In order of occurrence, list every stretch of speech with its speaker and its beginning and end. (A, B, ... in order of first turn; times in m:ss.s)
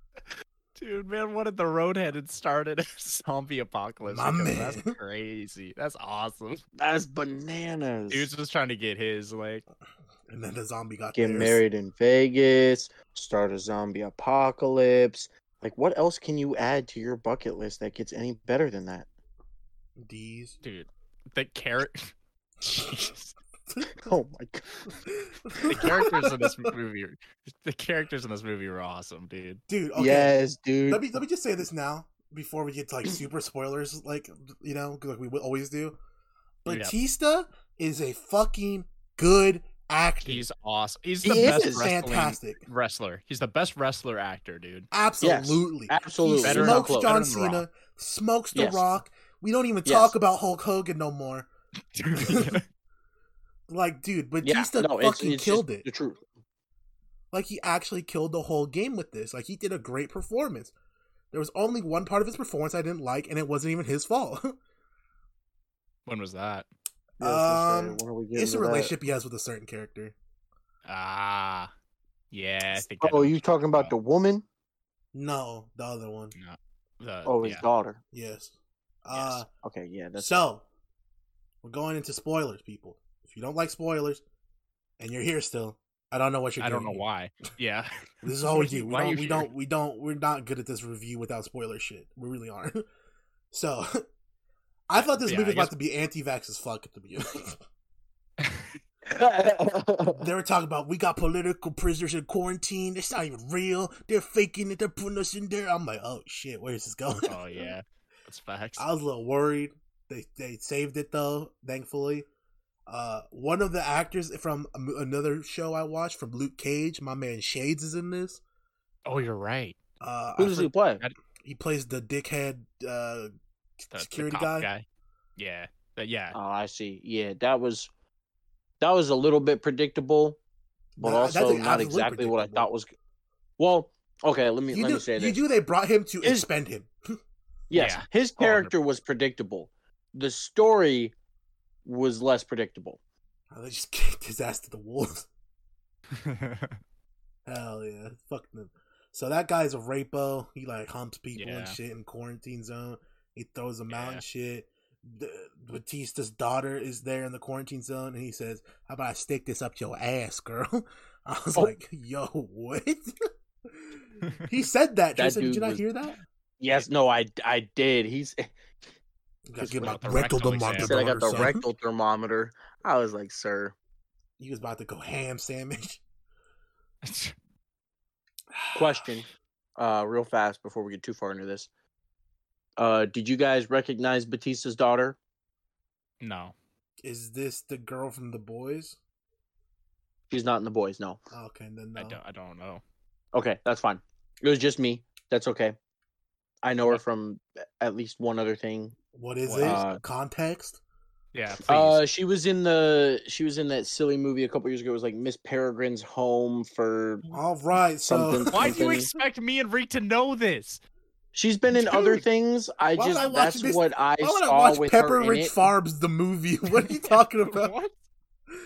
0:00.8-0:06.6 A
0:04.0-0:05.0 B
0:06.8-0:08.3 C
0:08.1-0:09.6 A
0:10.3-0:11.6 B
0:11.1-0:19.1 C
0:20.0-0:20.6 B
0:20.6-0:23.4 A
0:23.7-0:24.1 B
0:24.0-0:24.6 C
0:25.0-0:26.8 B
0:25.6-0:29.6 A
0:29.7-0:30.3 B
0:30.0-0:31.0 C
0:30.9-0:36.0 B
0:36.6-0:40.4 B
0:36.7-0:36.9 A
0:40.2-0:44.9 A
0:41.2-0:41.9 C
0:41.3-0:42.6 B
0:44.9-0:51.5 B
0:45.2-0:47.2 C
0:46.4-0:47.6 A
0:48.5-0:48.9 C
0:49.8-0:50.1 C
0:52.0-0:52.6 A
0:52.2-0:52.6 B
0:53.7-0:55.8 B
0:54.4-0:56.2 C
0:57.3-1:00.7 B
1:01.3-1:04.6 B
1:06.1-1:06.7 A
1:07.2-1:08.9 C
1:07.2-1:10.2 B
1:10.9-1:11.7 A
1:12.3-1:13.9 A
1:12.8-1:14.4 C
1:15.1-1:16.4 B
1:16.4-1:17.6 A
1:17.3-1:18.0 C
1:18.1-1:19.5 B
1:19.1-1:19.4 A
1:19.6-1:20.4 C
1:20.2-1:20.6 B
1:21.6-1:24.2 B
1:25.0-1:27.0 B
1:26.6-1:27.9 A
1:28.2-1:32.8 B
1:28.4-1:29.5 A
1:33.5-1:34.0 B
1:34.9-1:37.6 B
1:35.0-1:35.7 A
1:38.4-1:38.8 A
1:39.1-1:40.2 C
1:40.2-1:47.7 B
1:47.3-1:48.9 A
1:48.8-1:52.3 B
1:52.9-1:58.4 B
1:59.1-1:59.8 A
2:00.0-2:00.7 B
2:00.4-2:01.0 C
2:00.5-2:01.1 A
2:01.4-2:03.3 B
2:03.8-2:04.7 B
2:03.9-2:04.8 A
2:05.4-2:06.4 A
2:06.3-2:07.9 C
2:08.8-2:10.4 C
2:11.0-2:12.9 C
2:11.0-2:12.7 B
2:13.6-2:15.4 C
2:14.7-2:17.2 B
2:17.7-2:21.1 C
2:17.7-2:18.7 A
2:21.8-2:23.0 C
2:23.5-2:25.3 B
2:26.2-2:26.8 A
2:27.5-2:43.2 B
2:31.4-2:31.8 A
2:33.9-2:34.2 A
2:43.7-2:46.2 B
2:45.2-2:45.8 C
2:46.6-2:48.5 C
2:49.5-2:51.6 B
2:49.6-2:50.0 C
2:49.7-2:51.0 A
2:50.8-2:53.8 C
2:54.4-2:56.0 B
2:57.0-2:57.4 A
2:58.5-2:59.1 B
2:58.7-2:59.3 C
2:59.8-3:01.7 C
3:02.8-3:05.2 C
3:06.2-3:06.6 A
3:07.0-3:09.0 B
3:10.3-3:11.2 C
3:11.3-3:12.2 B
3:12.0-3:12.8 A
3:13.3-3:15.8 C
3:16.6-3:19.0 C
3:19.1-3:20.8 B
3:19.5-3:19.8 A
3:19.6-3:20.0 C
3:21.3-3:22.0 A
3:21.7-3:27.2 C
3:27.3-3:29.0 B
3:28.1-3:29.1 C
3:28.5-3:30.8 A
3:31.3-3:35.6 C
3:31.8-3:32.2 B
3:33.0-3:37.7 B
3:36.8-3:37.9 A